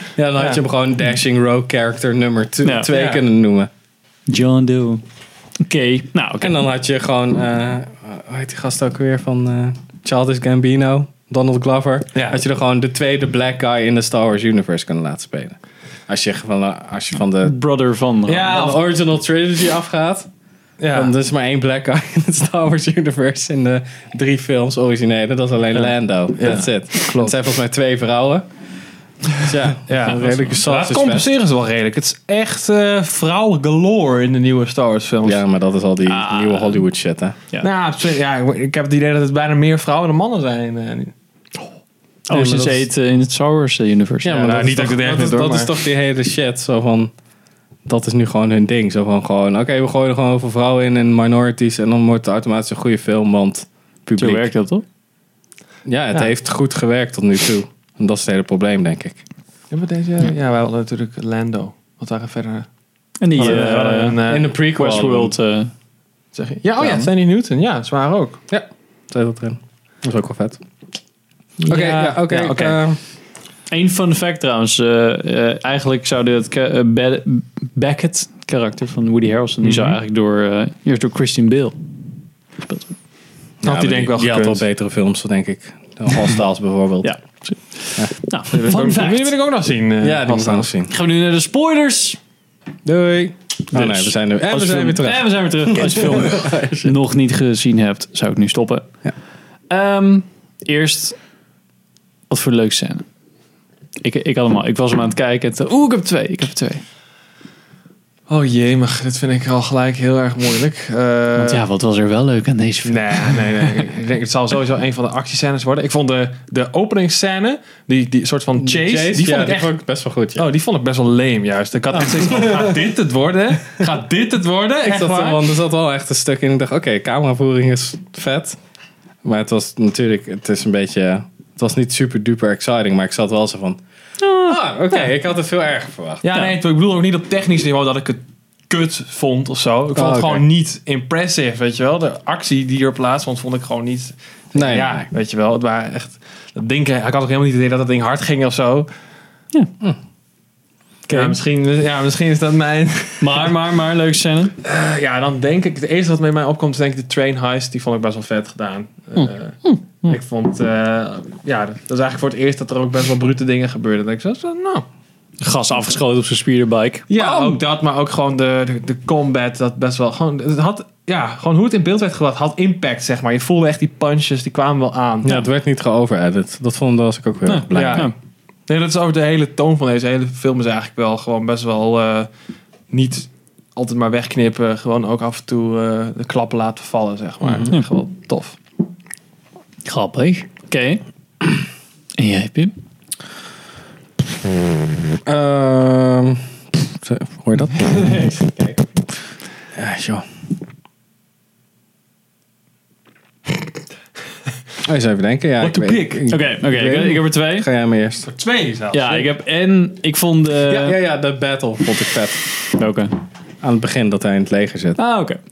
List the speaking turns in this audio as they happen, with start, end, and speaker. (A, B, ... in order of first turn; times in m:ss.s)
0:00.2-0:03.7 A
0:02.6-0:02.9 B
0:02.9-0:03.2 C
0:04.3-0:05.0 B
0:05.6-0:06.6 B
0:06.4-0:15.6 A
0:12.1-0:12.4 C
0:16.1-0:17.6 A
0:17.4-0:18.5 B
0:18.3-0:18.8 C
0:18.5-0:20.3 A
0:20.8-0:21.1 C
0:20.9-0:28.4 A
0:26.4-0:27.4 C
0:29.4-0:31.3 A
0:29.9-0:35.4 C
0:35.2-0:37.4 A
0:36.0-0:36.8 B
0:37.6-0:41.1 C
0:42.3-0:44.4 B
0:42.3-0:42.9 A
0:44.2-0:47.1 A
0:44.3-0:45.7 C
0:47.8-0:54.5 A
0:54.2-0:54.8 B
0:55.8-0:59.2 A
0:59.7-1:02.7 C
1:03.2-1:04.2 B
1:03.3-1:04.5 C
1:03.4-1:05.3 A
1:04.7-1:05.7 B
1:06.3-1:08.4 C
1:06.8-1:07.1 A
1:08.5-1:10.6 A
1:11.6-1:12.8 C
1:11.7-1:13.0 A
1:13.7-1:21.8 B
1:19.6-1:20.0 C
1:22.6-1:22.9 B
1:23.6-1:27.2 A
1:23.6-1:24.6 C
1:27.0-1:29.3 B
1:28.5-1:30.7 C
1:30.0-1:30.9 A
1:30.9-1:32.2 B
1:32.8-1:36.9 A
1:33.7-1:38.9 B
1:39.7-1:41.2 B
1:42.3-1:43.0 B
1:44.0-1:46.8 B
1:48.3-1:51.6 C
1:51.4-1:53.8 B
1:52.8-1:59.7 C
1:58.6-2:00.5 A
2:00.3-2:05.4 C
2:02.2-2:02.7 A
2:04.8-2:08.6 A
2:09.2-2:13.8 A
2:14.2-2:14.6 B
2:14.4-2:16.2 A
2:16.2-2:28.9 C
2:19.9-2:20.4 A
2:24.5-2:25.1 A
2:31.1-2:31.4 B
2:31.1-2:33.5 C
2:33.2-2:34.5 B
2:34.6-2:44.8 C
2:39.2-2:40.1 B
2:45.4-2:47.5 B
2:47.1-2:55.4 C
2:55.2-2:58.1 A
2:57.5-2:58.1 B
2:57.7-2:58.1 C
2:58.7-3:02.3 C
3:02.9-3:08.6 C
3:07.4-3:07.7 A
3:09.8-3:11.0 B
3:12.2-3:12.7 B
3:15.2-3:18.8 A
3:19.7-3:20.2 A
3:24.8-3:28.3 A
3:25.6-3:26.2 C
3:26.3-3:27.6 B
3:28.2-3:29.3 C
3:28.9-3:31.0 B
3:30.7-3:32.5 A
3:32.8-3:33.1 B
3:33.6-3:35.0 A
3:35.0-3:35.4 B